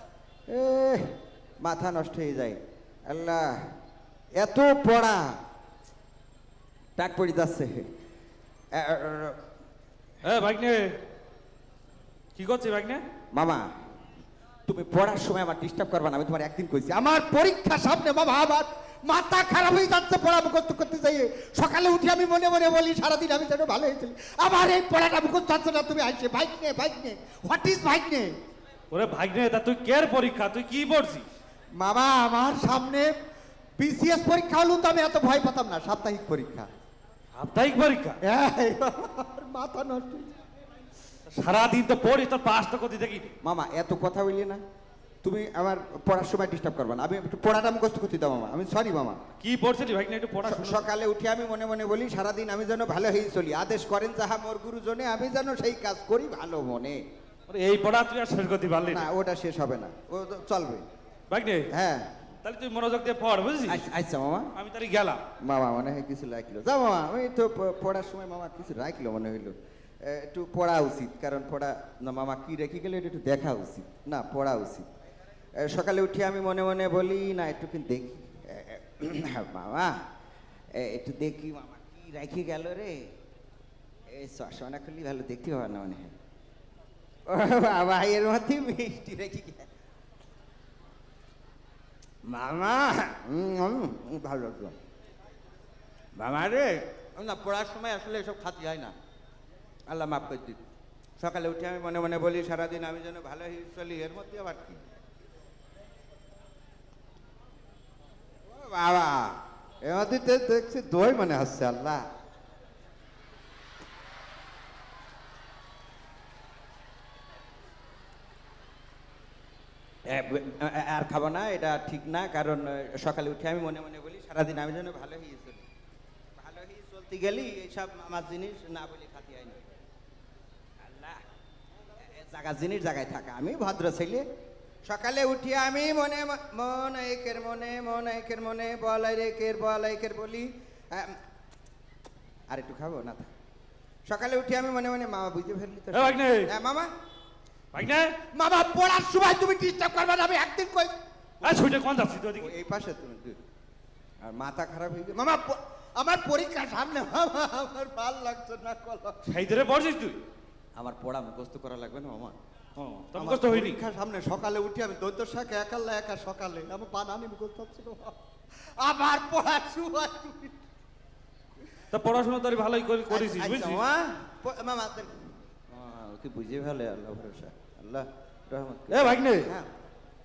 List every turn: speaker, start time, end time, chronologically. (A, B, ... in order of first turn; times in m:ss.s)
0:00.5-0:03.7 A
0:04.4-0:05.3 A
0:07.0-0:07.9 A
0:08.7-0:09.4 A
0:10.2-0:11.0 B
0:12.4-0:13.0 B
0:13.3-0:13.7 A
0:14.6-0:28.3 A
0:28.9-0:31.2 B
0:31.7-0:33.1 A
0:33.8-0:36.7 A
0:37.3-0:38.2 B
0:38.2-0:40.4 A
0:41.3-0:43.3 B
0:43.4-0:44.6 A
0:45.2-0:49.2 A
0:49.4-0:50.8 B
0:50.4-0:57.0 A
0:57.5-0:59.1 B
0:58.9-1:00.8 A
1:01.3-1:01.7 B
1:01.7-1:02.1 A
1:02.4-1:03.9 B
1:03.6-1:04.5 A
1:04.5-1:05.2 B
1:05.4-1:14.9 A
1:15.6-1:20.0 A
1:20.7-1:23.0 A
1:24.1-1:26.1 A
1:27.3-1:29.7 A
1:32.2-1:34.8 A
1:36.2-1:38.9 A
1:39.9-1:40.6 A
1:41.2-1:44.8 A
1:48.5-1:52.0 A
2:00.0-2:05.6 A
2:06.4-2:09.7 A
2:10.9-2:11.2 A
2:12.1-2:14.2 A
2:14.8-2:21.2 A
2:22.5-2:23.3 A
2:24.1-2:26.9 A
2:25.9-2:26.5 B
2:27.7-2:28.1 B
2:28.3-2:31.8 A
2:31.4-2:32.5 B
2:32.4-2:33.4 A
2:34.2-2:39.3 A
2:39.2-2:40.2 B
2:40.8-2:42.4 A
2:42.8-2:43.8 B
2:43.2-2:50.6 A
2:51.9-2:53.8 B
2:53.1-2:55.1 A
2:55.7-2:59.7 A
2:58.9-2:59.5 B